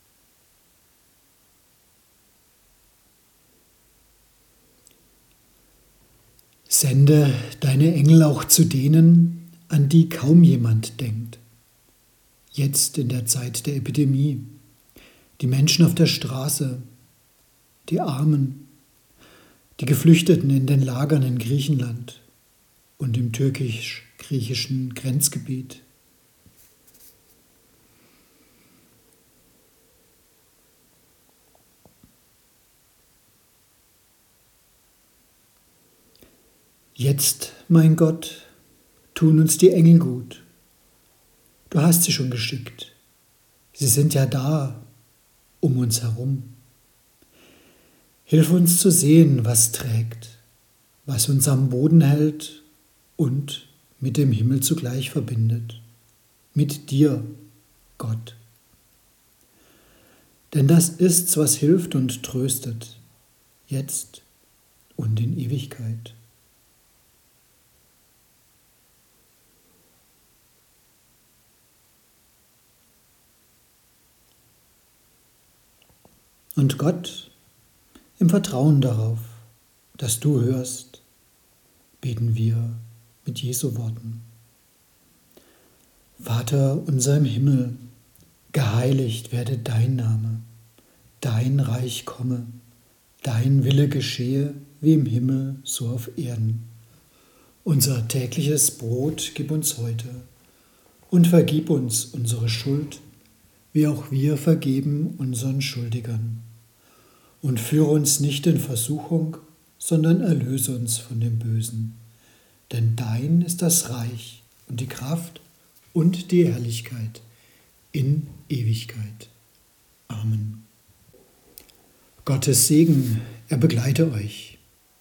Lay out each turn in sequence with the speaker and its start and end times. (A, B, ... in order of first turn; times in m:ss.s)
0:06.7-0:11.4 A
0:12.5-0:14.6 A
0:15.4-0:16.8 A
0:17.9-0:18.7 A
0:19.8-0:22.2 A
0:23.0-0:25.8 A
0:37.0-0:38.5 A
0:39.1-0:40.4 A
0:41.7-0:43.0 A
0:43.7-0:44.9 A
0:45.6-0:46.6 A
0:48.2-0:50.4 A
0:51.0-0:52.6 A
0:53.2-0:55.8 A
0:56.5-0:57.4 A
0:58.0-0:58.4 A
1:00.5-1:03.0 A
1:03.7-1:04.2 A
1:05.0-1:06.2 A
1:16.6-1:17.3 A
1:18.2-1:19.4 A
1:20.0-1:21.0 A
1:22.0-1:24.3 A
1:26.2-1:27.8 A
1:28.5-1:30.5 A
1:31.2-1:32.6 A
1:33.2-1:36.7 A
1:37.6-1:40.3 A
1:41.1-1:43.0 A
1:43.7-1:46.5 A
1:47.4-1:52.0 A
1:52.7-1:57.2 A
1:57.9-1:59.3 A
2:00.1-2:00.6 A
2:02.2-2:04.6 A